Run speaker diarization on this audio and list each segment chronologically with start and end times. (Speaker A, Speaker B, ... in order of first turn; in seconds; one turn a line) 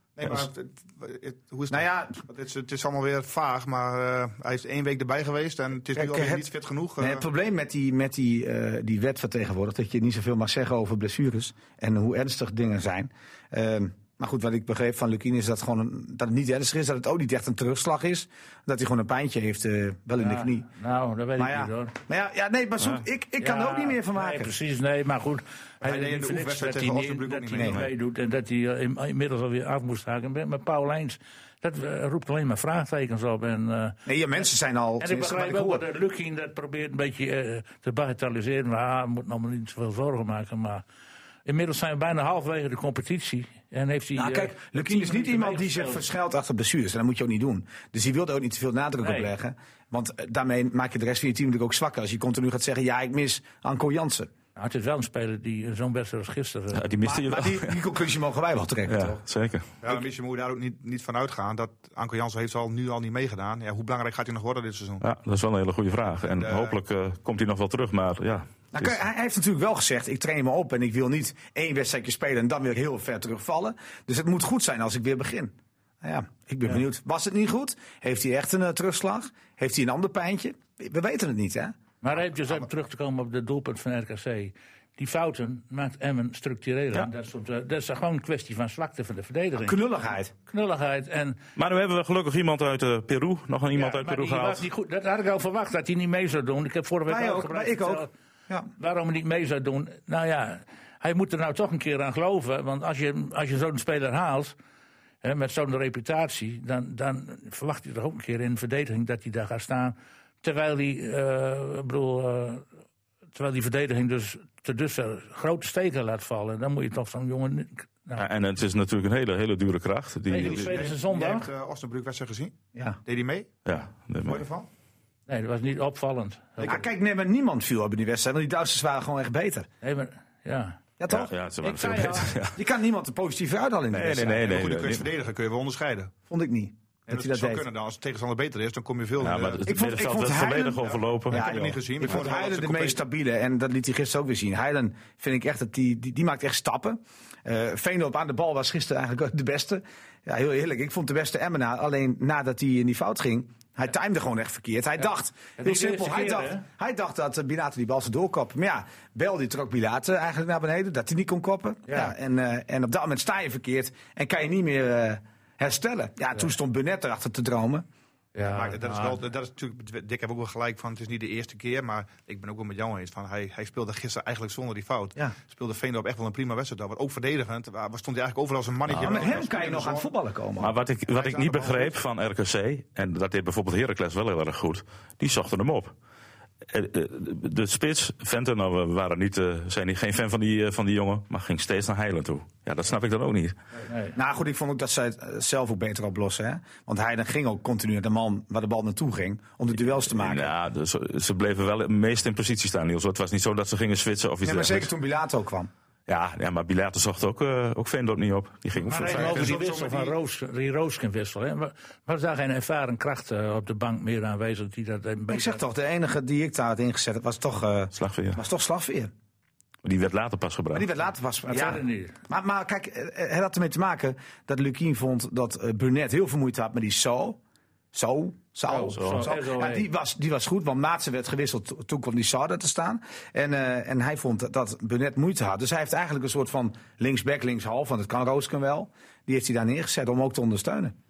Speaker A: 0.1-7.2
Speaker B: 1.7-2.2
Speaker B: 5.9-6.5
Speaker B: 7.0-20.7
Speaker C: 20.2-21.9
Speaker B: 21.4-24.5
Speaker C: 23.4-34.0
Speaker A: 25.8-27.9
Speaker B: 27.5-27.8
Speaker B: 34.0-35.8
Speaker C: 35.0-40.8
Speaker C: 41.5-46.0
Speaker B: 44.1-54.3
Speaker C: 49.0-49.3
Speaker C: 54.5-56.8
Speaker D: 56.7-57.8
Speaker B: 57.0-59.2
Speaker D: 58.9-59.7
Speaker A: 59.8-65.0
Speaker D: 65.0-68.9
Speaker A: 66.3-66.8
Speaker B: 68.7-81.8
Speaker C: 82.0-89.8
Speaker B: 89.6-90.3
Speaker C: 90.5-91.4
Speaker D: 91.5-94.7
Speaker C: 93.7-98.1
Speaker B: 97.1-98.7
Speaker C: 98.8-104.5
Speaker C: 105.2-112.7
Speaker C: 113.3-118.2
Speaker D: 118.2-120.8
Speaker C: 120.3-121.5
Speaker A: 120.3-123.5
Speaker D: 123.7-124.4
Speaker A: 124.2-124.7
Speaker C: 125.3-126.8
Speaker B: 126.6-129.7
Speaker C: 129.8-130.8
Speaker B: 131.0-131.3
Speaker D: 131.1-132.6
Speaker C: 131.6-132.3
Speaker B: 132.5-134.5
Speaker D: 133.9-135.1
Speaker A: 134.4-136.1
Speaker B: 136.3-137.7
Speaker A: 137.1-139.6
Speaker D: 139.2-141.5
Speaker B: 139.6-167.8
Speaker A: 141.3-143.0
Speaker C: 155.6-156.6
Speaker C: 161.9-162.1
Speaker C: 168.3-169.2
Speaker A: 168.4-180.1
Speaker D: 178.9-179.3
Speaker B: 179.0-180.8
Speaker D: 180.6-185.9
Speaker A: 181.1-181.9
Speaker D: 186.7-193.6
Speaker C: 193.9-194.1
Speaker B: 194.1-200.5
Speaker D: 200.1-204.9
Speaker B: 204.4-205.7
Speaker D: 206.1-209.5
Speaker C: 208.8-215.6
Speaker A: 209.0-210.2
Speaker B: 215.3-219.1
Speaker D: 217.9-218.4
Speaker D: 219.8-220.9
Speaker B: 220.7-227.4
Speaker C: 221.5-222.1
Speaker B: 227.9-240.9
Speaker C: 228.7-229.8
Speaker D: 229.0-229.2